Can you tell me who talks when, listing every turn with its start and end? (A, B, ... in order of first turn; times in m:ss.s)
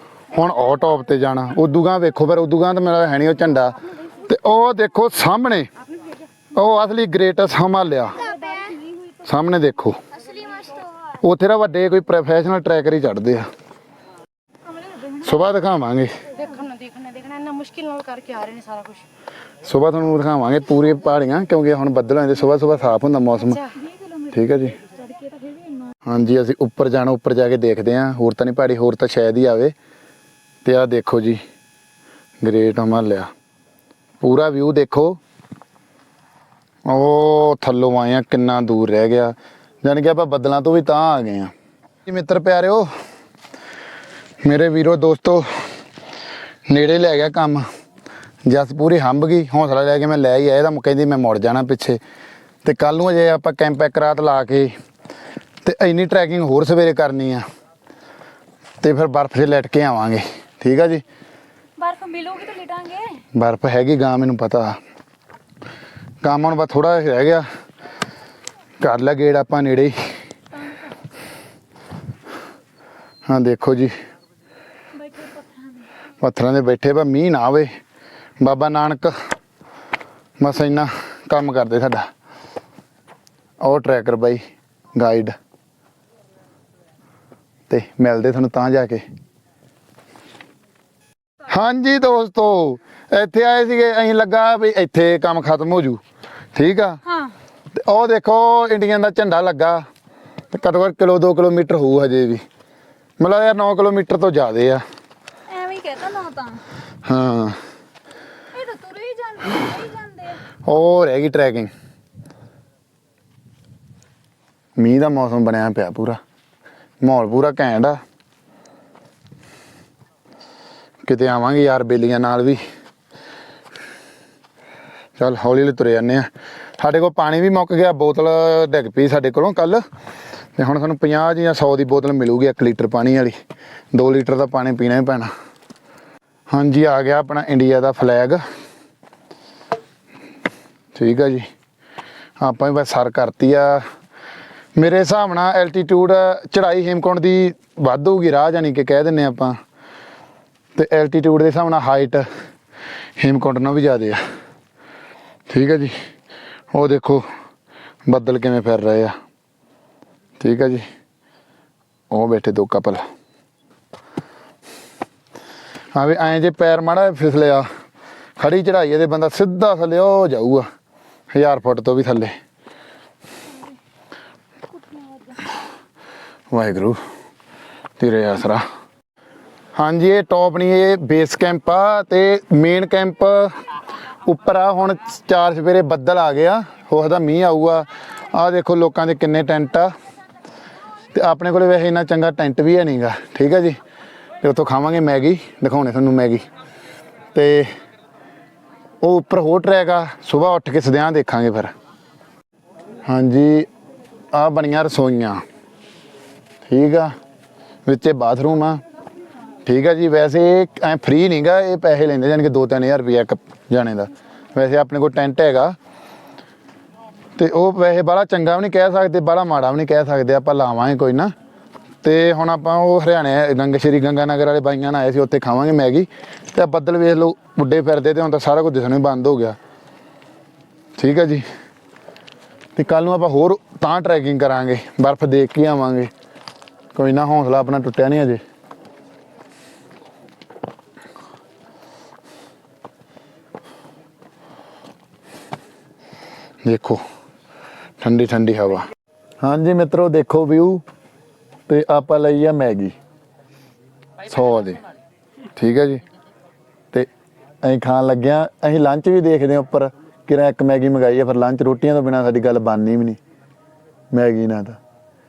0:00.3-0:03.8 A
0:04.3-0:05.7 A
0:06.5-0:08.2 A
0:08.2-0:09.1 B
0:09.2-0:10.0 A
0:11.2-0:13.5 A
0:14.7-0:15.4 B
0:15.2-0:16.1 A
0:16.4-0:19.1 C
0:19.6-0:23.6 A
0:23.7-0:25.9 B
0:24.3-0:24.8 A
0:26.0-0:29.7 A
0:30.6-0:31.4 A
0:32.4-0:33.3 A
0:34.2-0:35.2 A
0:36.9-0:41.5 A
0:42.0-0:42.9 A
0:44.4-0:45.5 A
0:46.7-0:47.6 A
0:48.4-0:52.0 A
0:52.6-0:54.7 A
0:55.6-0:57.4 A
0:58.8-1:01.0 A
1:01.8-1:03.2 B
1:03.4-1:04.8 A
1:06.2-1:07.4 A
1:08.8-1:10.0 A
1:10.5-1:10.9 B
1:13.3-1:13.9 A
1:14.9-1:15.9 B
1:16.2-1:17.7 A
1:18.4-1:19.2 A
1:20.4-1:22.1 A
1:23.6-1:24.4 A
1:24.9-1:25.3 A
1:27.7-1:29.0 A
1:31.5-1:36.0 A
1:36.5-1:37.0 A
1:37.0-1:37.3 B
1:37.7-1:39.8 A
1:40.5-1:42.4 A
1:43.2-1:44.8 A
1:45.5-1:46.6 B
1:47.0-1:47.6 A
1:48.5-1:50.4 B
1:50.6-1:51.7 A
1:54.8-1:56.2 A
1:57.0-1:58.0 A
2:01.0-2:02.6 A
2:05.2-2:06.3 A
2:06.8-2:09.8 A
2:10.6-2:13.3 A
2:13.9-2:15.3 A
2:16.5-2:18.4 A
2:20.9-2:21.5 A
2:22.4-2:23.8 A
2:24.8-2:29.6 A
2:30.8-2:32.2 A
2:33.2-2:34.2 A
2:35.5-2:35.9 A
2:36.7-2:37.2 A
2:38.1-2:39.2 A
2:40.4-2:40.8 A
2:42.1-2:43.0 A
2:45.9-2:47.7 A
2:48.4-2:50.7 A
2:51.3-2:52.3 A
2:54.7-2:55.4 B
2:56.5-2:57.0 A
2:58.0-2:58.6 A
2:59.8-3:03.5 A
3:04.2-3:09.9 A
3:11.1-3:13.8 A
3:14.4-3:16.4 A
3:17.3-3:17.7 A
3:19.0-3:21.7 A
3:23.0-3:23.7 A
3:24.3-3:25.4 A
3:26.6-3:27.1 A
3:27.8-3:28.8 A
3:29.6-3:35.8 A
3:37.4-3:41.3 A
3:42.0-3:49.6 A
3:51.0-3:51.4 A
3:52.8-3:56.1 A
3:56.9-3:58.4 A
4:06.6-4:07.0 A
4:08.0-4:08.9 A
4:09.4-4:10.8 A
4:11.7-4:12.9 A
4:14.2-4:14.8 A
4:15.5-4:16.0 A
4:17.6-4:23.2 A
4:24.1-4:24.8 A